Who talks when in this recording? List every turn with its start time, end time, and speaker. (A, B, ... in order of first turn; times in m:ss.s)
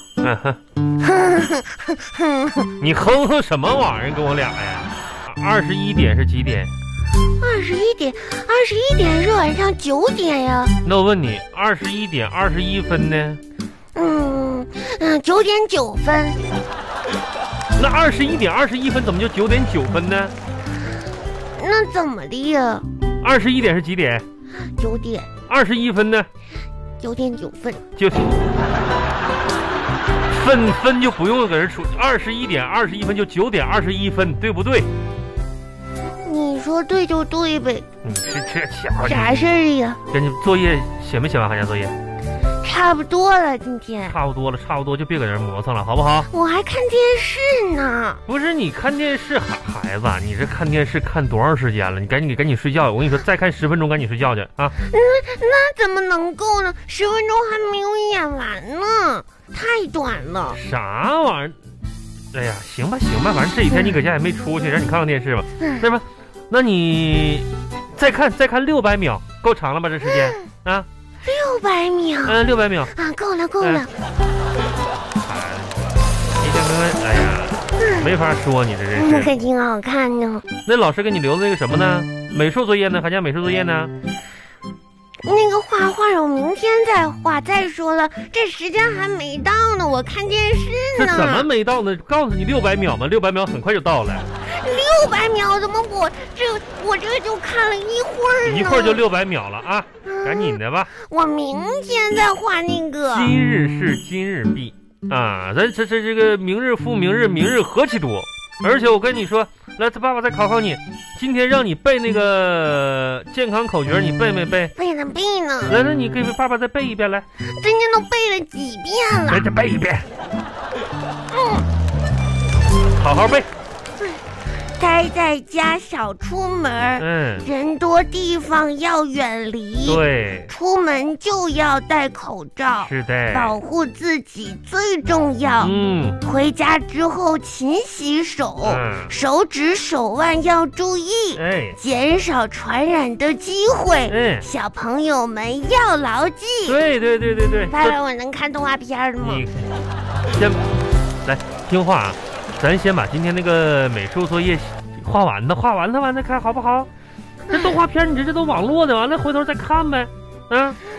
0:00.2-0:00.6 A
0:01.0-0:02.7 B
0:02.8-0:06.7 A
0:07.4-0:10.7 B
0:10.8-0:13.4 A
0:13.9-0:16.4 B
0:17.8-0:20.3 A
0:21.6-0:22.9 B
0:23.2-0:24.2 A
0:24.5-0:25.3 B
0:25.5-0:26.3 A
0:27.0-0:27.8 B
0:28.0-0:28.3 A
0:30.3-0:34.9 A
0:36.2-0:37.9 B
0:38.0-0:39.4 A
0:39.0-0:40.0 B
0:40.1-0:41.9 A
0:42.6-0:44.2 B
0:44.1-0:46.3 A
0:46.3-0:48.2 B
0:48.3-0:54.8 A
0:54.8-1:00.6 B
1:00.5-1:01.6 A
1:02.3-1:10.9 A
1:05.6-1:05.8 B
1:11.2-1:12.4 B
1:12.2-1:12.9 A
1:12.9-1:13.9 B
1:13.6-1:13.8 A
1:15.2-1:15.9 A
1:16.4-1:19.3 A
1:17.8-1:18.1 B
1:19.0-1:20.4 B
1:20.6-1:23.9 A
1:25.2-1:31.5 B
1:30.9-1:34.2 A
1:34.4-1:39.0 B
1:38.4-1:40.9 A
1:40.0-1:43.3 B
1:43.1-1:54.7 A
1:54.7-1:55.8 B
1:55.7-1:57.2 A
1:57.4-1:59.5 B
1:59.3-2:00.1 A
2:01.3-2:01.7 B
2:03.0-2:03.5 A
2:04.7-2:26.8 B
2:07.0-2:07.4 A
2:09.8-2:10.5 A
2:12.8-2:13.6 A
2:15.6-2:16.2 A
2:18.6-2:19.1 A
2:21.4-2:21.8 A
2:24.1-2:24.4 A
2:26.6-2:28.0 A
2:27.7-2:29.4 B
2:29.2-2:29.7 A
2:30.3-2:30.7 A
2:31.2-2:36.9 A
2:37.5-2:37.8 B
2:37.5-2:40.8 A